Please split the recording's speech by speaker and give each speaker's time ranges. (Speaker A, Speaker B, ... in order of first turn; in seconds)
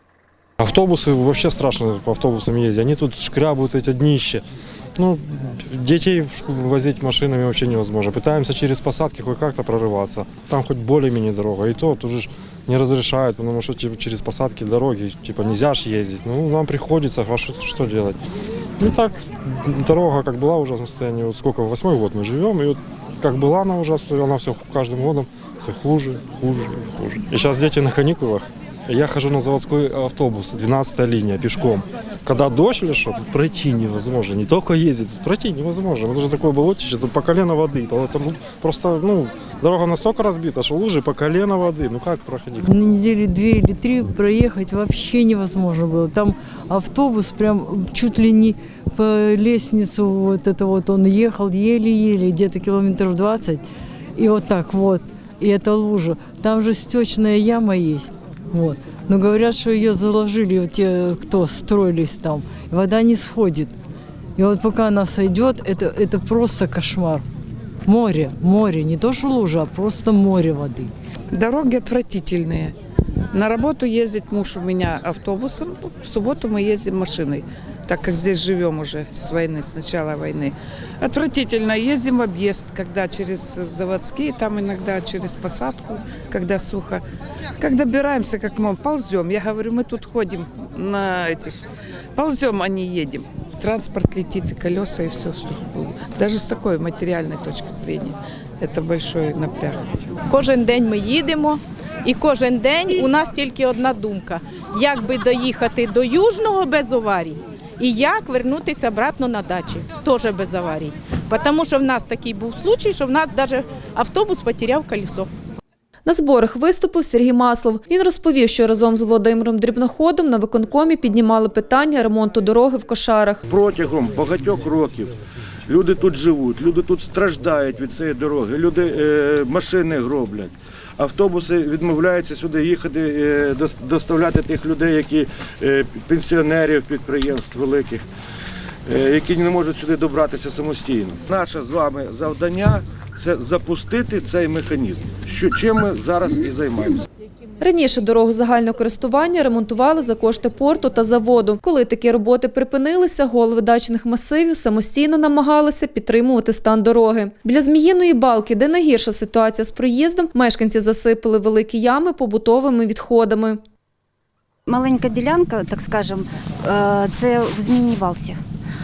Speaker A: 0.6-4.4, 5.0-18.2, 18.8-42.7
Speaker B: 42.6-53.6, 54.2-63.7, 64.4-67.2, 67.9-70.9
Speaker C: 71.3-72.8, 73.3-87.0, 87.6-91.6, 92.2-100.0
Speaker D: 100.3-115.3
Speaker E: 116.1-123.4, 147.6-163.6
Speaker F: 123.6-125.1, 125.7-138.0, 138.9-146.9
Speaker G: 164.7-168.4